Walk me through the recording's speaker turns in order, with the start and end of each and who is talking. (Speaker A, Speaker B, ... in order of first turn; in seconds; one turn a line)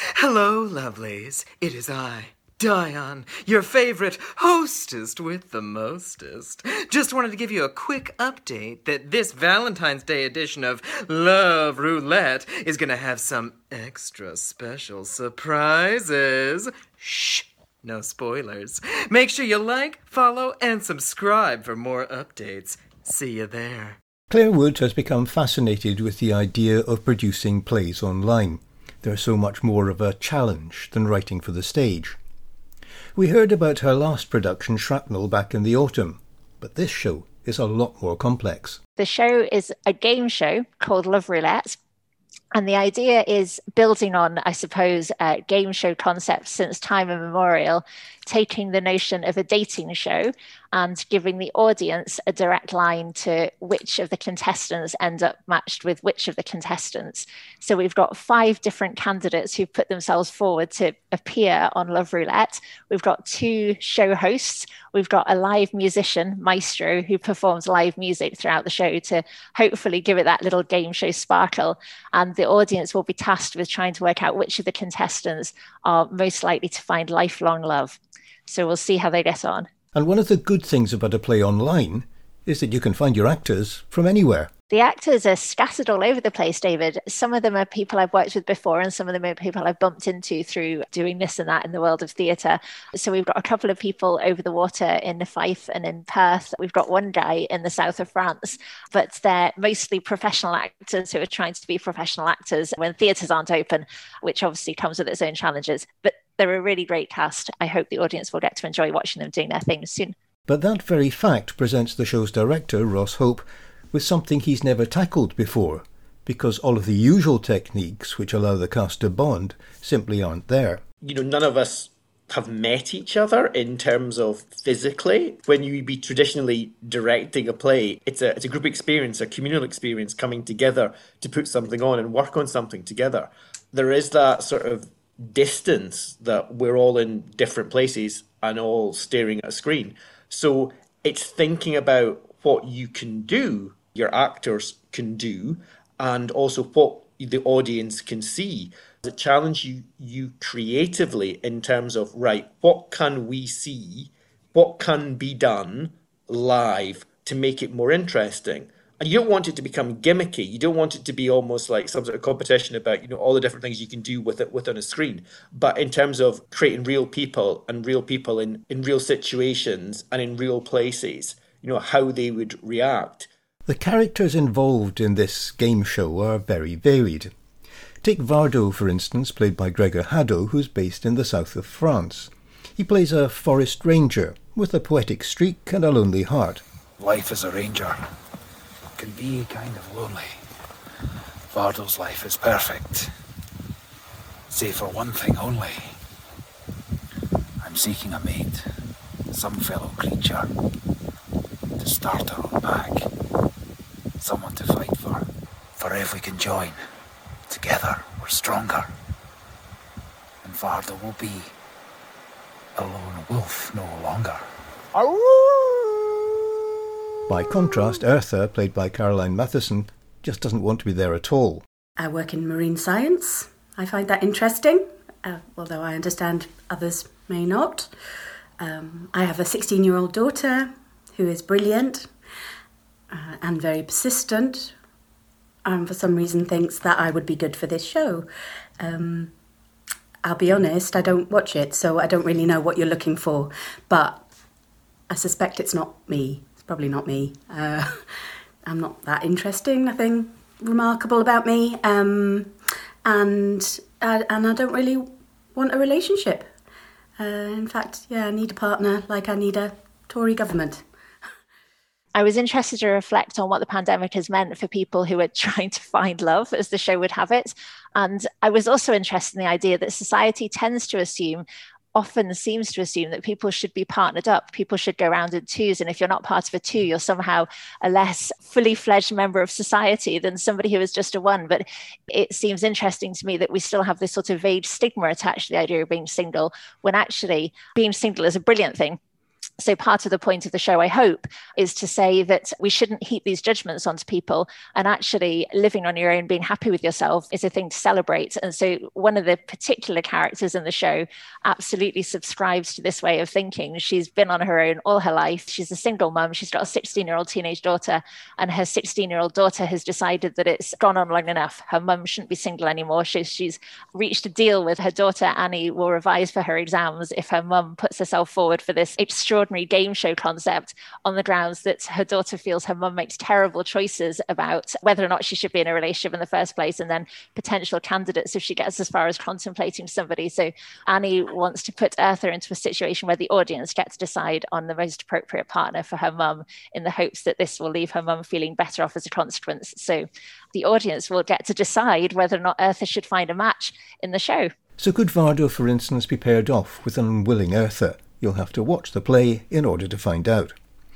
Speaker A: 0.1-24.0
Speaker B: 24.3-32.2
Speaker B: 33.1-38.8
Speaker C: 39.0-41.8
Speaker C: 42.5-79.7
Speaker B: 79.9-84.5
Speaker C: 84.7-110.1
Speaker B: 110.5-120.8
Speaker D: 121.0-173.3
Speaker B: 173.7-177.3
Speaker B: 178.0-186.6
Speaker E: 187.0-188.0
Speaker E: 189.0-190.4
Speaker E: 191.5-193.1
Speaker E: 194.5-196.0
Speaker E: 197.6-198.7
Speaker E: 199.3-200.5
Speaker E: 201.8-203.1
Speaker E: 204.2-206.8
Speaker E: 207.5-208.9
Speaker E: 210.4-211.5
Speaker E: 212.8-214.4
Speaker B: 217.3-221.6
Speaker F: 222.0-227.9
Speaker F: 228.6-232.1
Speaker F: 233.1-234.7
Speaker F: 235.6-238.3
Speaker F: 238.8-239.3
Speaker F: 240.2-244.2
Speaker F: 245.1-247.9
Speaker F: 248.7-256.4
Speaker F: 257.2-260.8
Speaker C: 262.1-289.0
Speaker C: 289.6-344.5
Speaker B: 344.8-350.5